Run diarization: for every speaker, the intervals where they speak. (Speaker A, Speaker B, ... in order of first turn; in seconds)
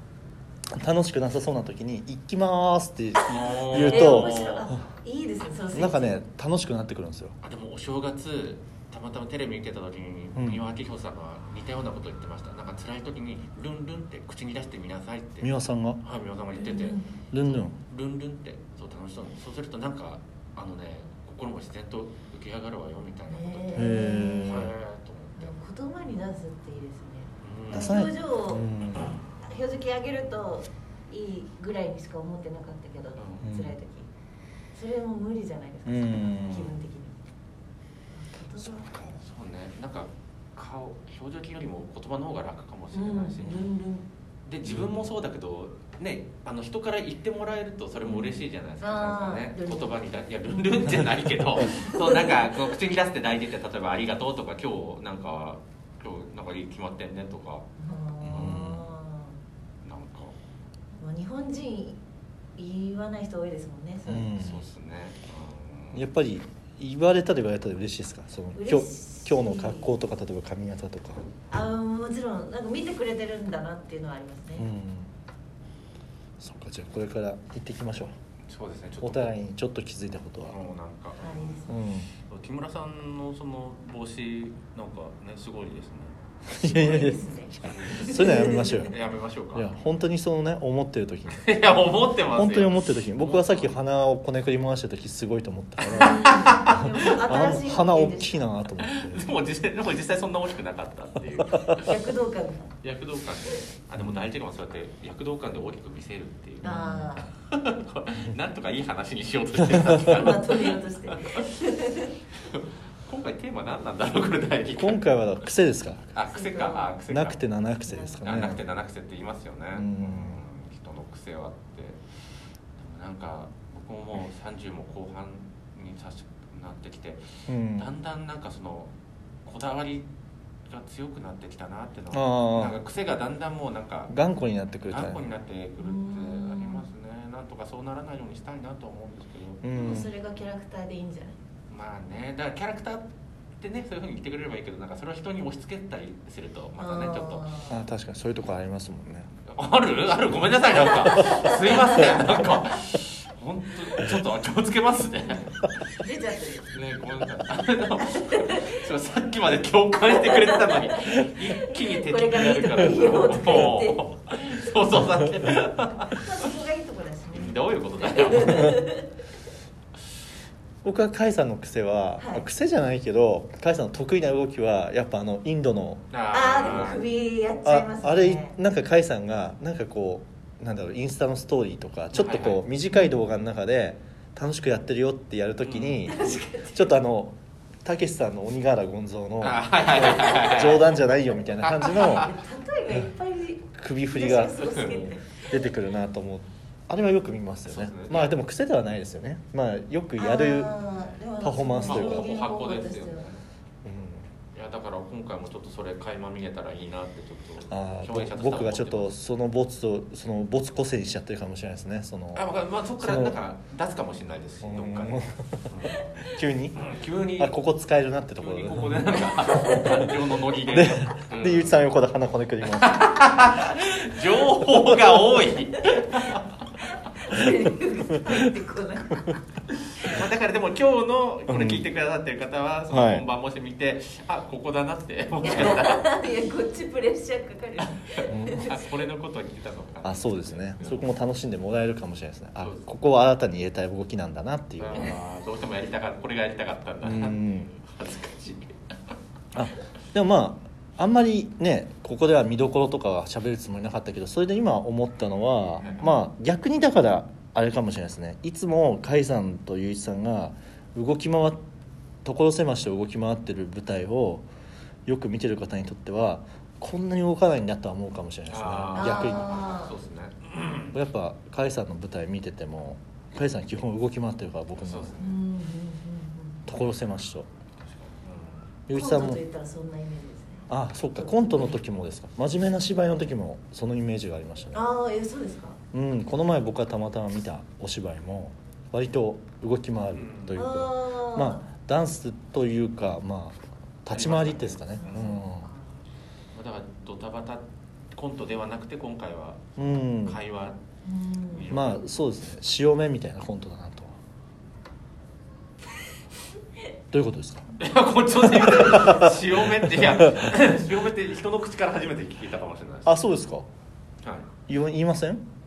Speaker A: 0.8-4.8, 5.7-7.3, 10.3-10.6, 15.4-16.0, 17.3-17.8, 23.7-24.7, 27.7-29.2, 33.4-33.7, 35.9-36.8, 44.7-44.9, 58.2-58.8, 64.0-64.6, 65.9-71.3, 74.5-75.1, 76.4-78.1, 79.0-80.5, 81.7-82.1, 86.5-88.9, 89.5-91.6, 92.1-99.3, 101.5-101.8, 104.0-104.2, 106.6-107.3, 114.7-116.1, 117.1-118.6, 119.7-120.4, 127.5-127.9, 132.1-132.8, 134.1-135.2, 139.6-140.1, 147.7-149.3, 170.8-176.1, 177.6-192.3, 193.7-200.8, 201.4-202.3, 203.8-204.3, 207.7-213.4, 214.6-219.3, 219.8-220.1, 220.7-223.1, 231.5-231.8, 232.9-233.2, 238.3-238.7, 240.0-245.2, 247.0-247.7, 249.5-261.6, 262.2-264.5, 265.1-269.7, 270.9-275.2, 276.7-277.5, 278.9-279.4, 280.7-284.8, 285.9-295.7, 299.8-300.4, 301.7-304.1, 307.1-307.7, 308.4-310.6, 313.1-313.7, 314.7-315.4
Speaker B: 3.2-4.7, 7.4-23.9, 24.4-25.6, 27.4-27.9, 33.2-33.5, 38.9-43.7, 44.4-57.7, 58.2-58.7, 59.8-60.4, 64.4-66.0, 78.5-79.3, 80.4-81.6, 82.2-86.1, 87.7-89.8, 91.3-93.7, 96.0-97.0, 98.8-101.9, 102.8-106.7, 107.5-111.4, 112.3-115.0, 116.1-117.4, 118.2-122.0, 122.8-128.9, 129.4-130.1, 130.7-134.1, 134.9-139.6, 141.7-143.1, 143.6-147.5, 149.4-155.7, 156.7-166.2, 167.3-168.8, 176.1-177.0, 182.1-182.6, 185.6-186.0, 189.4-190.9, 191.6-192.3, 194.6-195.1, 197.7-198.3, 201.8-203.4, 204.5-209.1, 212.3-217.6, 218.3-221.8, 222.7-226.5, 230.0-236.0, 237.8-241.2, 242.6-242.8, 244.8-248.7, 255.8-256.1, 268.5-270.9, 274.8-275.4, 277.8-278.7, 290.1-290.7, 294.1-295.3, 296.5-299.6, 300.2-300.8, 301.5-302.0, 307.8-313.2
Speaker C: 3.9-6.2, 16.5-17.1, 23.3-24.6, 25.4-34.1, 34.7-37.1, 38.1-38.9, 42.9-44.0, 48.8-51.0, 51.6-52.6, 57.8-59.4, 61.0-62.0, 62.6-64.4, 68.5-69.9, 71.5-74.7, 81.2-81.8, 86.6-88.9, 95.9-98.4, 101.8-102.7, 106.6-107.3, 109.9-112.1, 116.3-116.9, 117.8-118.2, 135.8-136.9, 139.7-141.4, 146.8-147.8, 151.0-152.2, 155.9-156.8, 157.9-158.9, 160.0-164.1, 165.9-169.1, 172.2-172.4, 176.3-178.6, 182.9-183.2, 186.0-187.0, 190.1-190.8, 191.8-195.7, 200.2-203.3, 219.4-220.0, 226.9-229.4, 235.4-238.9, 255.8-256.1, 268.9-269.9, 275.2-276.6, 278.9-281.8, 284.7-285.8, 290.6-291.6, 295.0-295.9, 301.0-301.7